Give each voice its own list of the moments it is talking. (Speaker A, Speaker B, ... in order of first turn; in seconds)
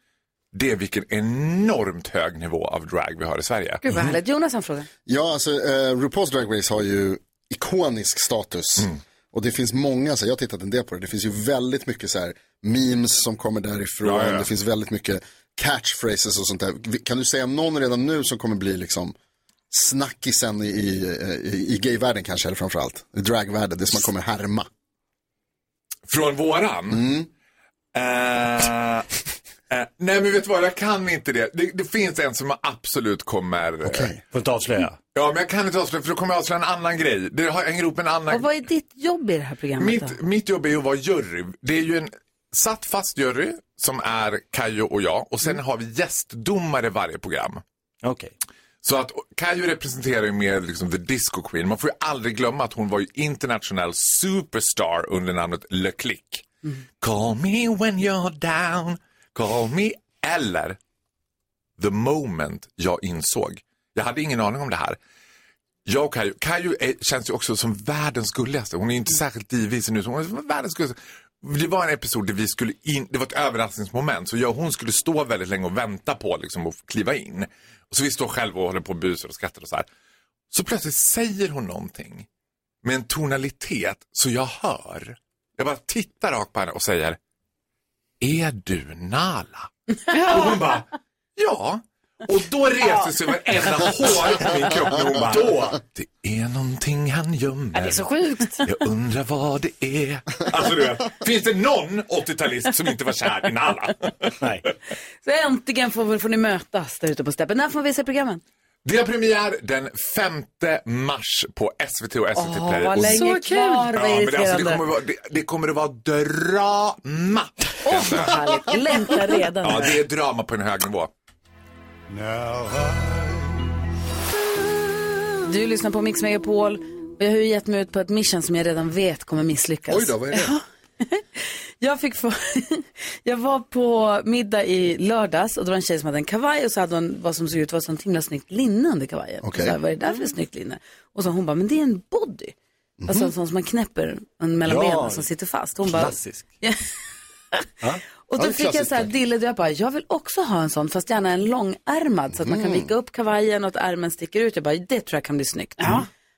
Speaker A: 0.5-3.8, 14.0-14.5, 26.1-27.1, 27.9-29.1, 29.7-34.1, 35.1-38.5, 39.8-47.6, 48.8-56.5, 57.0-60.8, 61.8-65.0, 65.8-79.9, 80.5-82.3, 82.8-87.2, 88.2-90.8, 91.4-98.1, 98.6-104.3, 108.8-113.2, 113.9-118.6, 119.6-121.1
Speaker B: 3.8-4.9, 38.3-40.2, 105.2-108.4, 112.3-114.8, 117.8-119.9, 125.4-142.5, 143.1-146.7, 148.3-156.0
Speaker C: 5.0-19.1, 19.7-24.7, 26.9-27.3, 33.8-34.2, 129.9-130.5, 139.4-139.8, 143.0-143.3, 148.3-149.1, 152.4-152.9
Speaker D: 34.3-35.0, 48.0-48.3, 95.2-95.8, 104.4-104.7, 144.6-145.3, 145.8-146.4
Speaker E: 90.1-90.8, 92.8-93.1, 97.7-98.6, 113.0-113.9, 155.8-156.1